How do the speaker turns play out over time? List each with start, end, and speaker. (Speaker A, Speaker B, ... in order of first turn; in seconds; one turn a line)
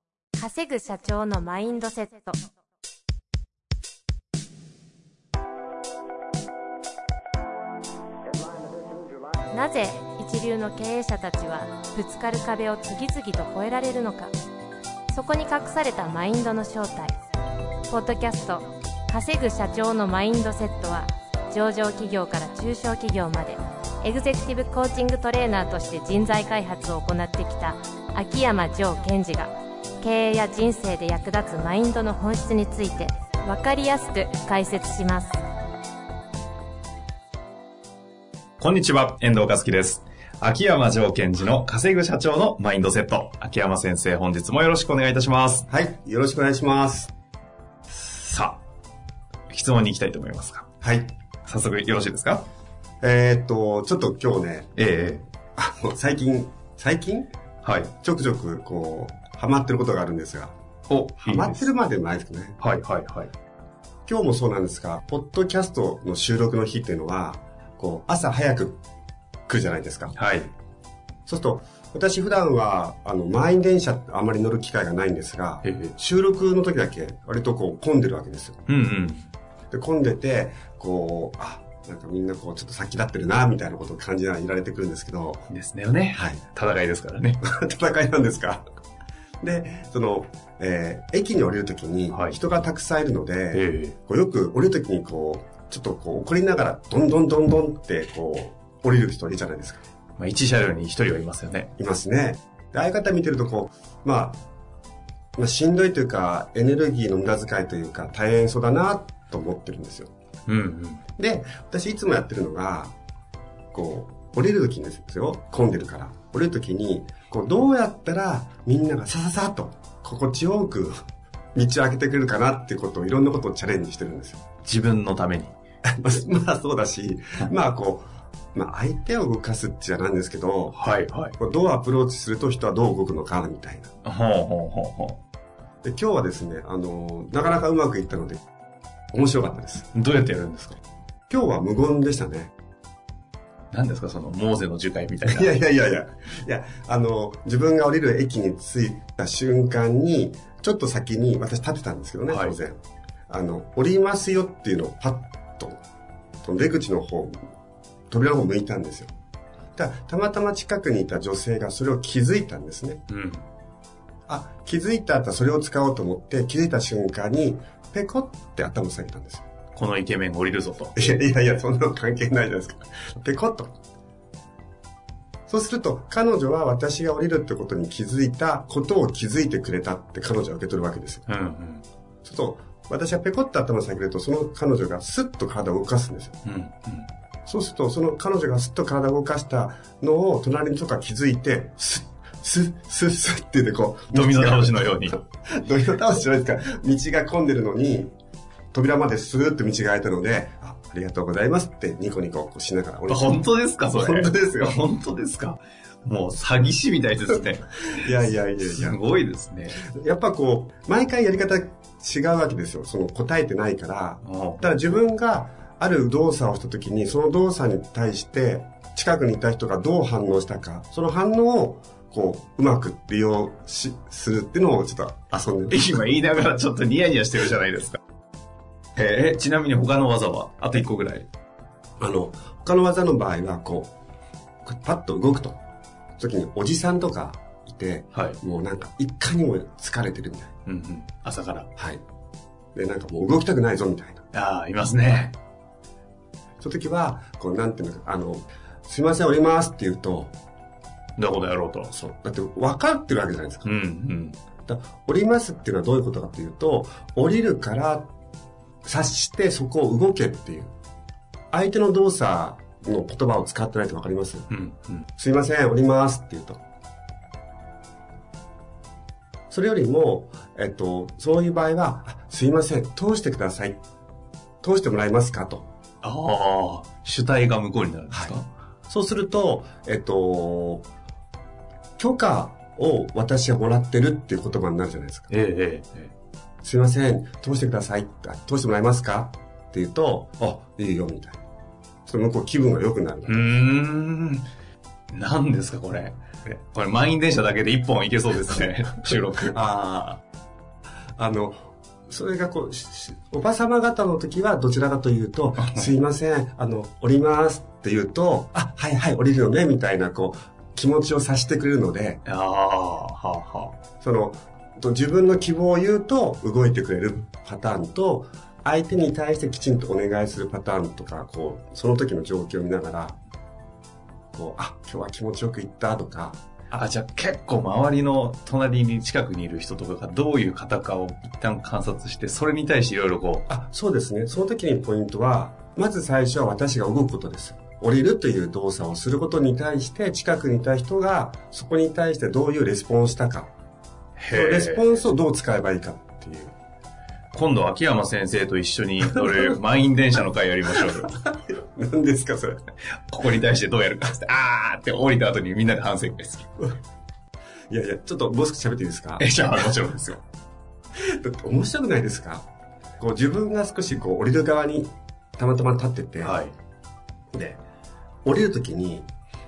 Speaker A: 0.4-2.4
Speaker A: 9.5-14.3
Speaker A: 15.1-17.1
Speaker A: 17.9-35.4
Speaker B: 38.6-45.6
Speaker C: 45.7-47.1
Speaker B: 47.9-48.6
Speaker B: 49.5-50.7
Speaker C: 50.8-51.1
Speaker B: 51.5-52.5
Speaker C: 53.0-54.7
Speaker B: 54.8-55.2
Speaker C: 55.6-57.3
Speaker B: 57.6-57.9
Speaker C: 57.9-60.5
Speaker B: 60.9-61.7
Speaker C: 61.2-62.6
Speaker B: 62.6-63.3
Speaker C: 64.1-68.8
Speaker C: 69.5-70.2
Speaker B: 70.2-70.5
Speaker C: 71.3-78.6
Speaker B: 75.6-75.9
Speaker B: 78.7-79.3
Speaker C: 79.7-85.5
Speaker B: 85.5-87.4
Speaker C: 86.1-86.4
Speaker C: 87.4-88.6
Speaker C: 89.4-99.8
Speaker B: 93.5-94.0
Speaker B: 100.2-101.7
Speaker C: 101.8-104.4
Speaker C: 105.4-110.1
Speaker B: 110.5-111.0
Speaker C: 111.2-112.9
Speaker C: 113.7-121.0
Speaker C: 121.5-124.4
Speaker B: 124.7-125.5
Speaker C: 125.9-130.8
Speaker B: 130.8-131.3
Speaker C: 131.4-133.9
Speaker B: 134.1-135.2
Speaker C: 135.8-138.4
Speaker C: 139.1-139.9
Speaker B: 139.9-140.8
Speaker C: 141.3-142.5
Speaker B: 143.7-145.6
Speaker C: 145.2-155.8
Speaker C: 156.4-157.5
Speaker C: 158.1-159.1
Speaker C: 159.8-163.0
Speaker B: 163.1-163.4
Speaker C: 164.3-169.5
Speaker B: 169.8-170.9
Speaker C: 171.0-173.7
Speaker C: 175.5-181.3
Speaker B: 181.3-181.8
Speaker C: 182.2-186.4
Speaker B: 186.4-187.1
Speaker C: 187.5-198.2
Speaker B: 194.1-195.2
Speaker C: 198.7-203.4
Speaker B: 203.1-208.1
Speaker C: 203.9-204.8
Speaker C: 207.9-209.0
Speaker B: 208.6-209.8
Speaker C: 209.8-226.0
Speaker B: 214.2-214.7
Speaker B: 225.7-228.0
Speaker B: 229.0-231.3
Speaker C: 232.0-233.9
Speaker C: 234.7-235.6
Speaker C: 236.2-240.5
Speaker B: 240.7-241.7
Speaker C: 241.8-242.0
Speaker C: 242.7-244.2
Speaker B: 244.3-245.4
Speaker C: 246.6-250.3
Speaker B: 251.2-251.9
Speaker C: 251.9-253.7
Speaker B: 253.6-254.4
Speaker C: 254.7-258.1
Speaker C: 258.9-260.7
Speaker C: 261.5-264.5
Speaker B: 264.5-265.1
Speaker C: 265.2-266.6
Speaker C: 269.5-273.8
Speaker C: 274.6-275.7
Speaker B: 276.0-278.5
Speaker C: 278.9-280.9
Speaker C: 282.0-285.3
Speaker B: 285.3-286.1
Speaker C: 286.6-291.4
Speaker C: 292.1-293.5
Speaker B: 293.3-294.5
Speaker B: 295.1-300.2
Speaker C: 299.5-299.8
Speaker C: 301.2-312.2
Speaker B: 312.2-313.8
Speaker C: 314.0-323.2
Speaker C: 324.3-326.4
Speaker B: 326.7-333.5
Speaker C: 333.5-343.5
Speaker B: 344.2-344.8
Speaker C: 344.3-346.6
Speaker B: 347.3-351.2
Speaker C: 351.1-352.6
Speaker B: 353.1-356.6
Speaker C: 357.7-359.2
Speaker B: 359.2-360.2
Speaker C: 361.0-362.5
Speaker C: 363.0-366.4
Speaker B: 366.2-366.5
Speaker C: 367.3-367.6
Speaker C: 368.2-369.1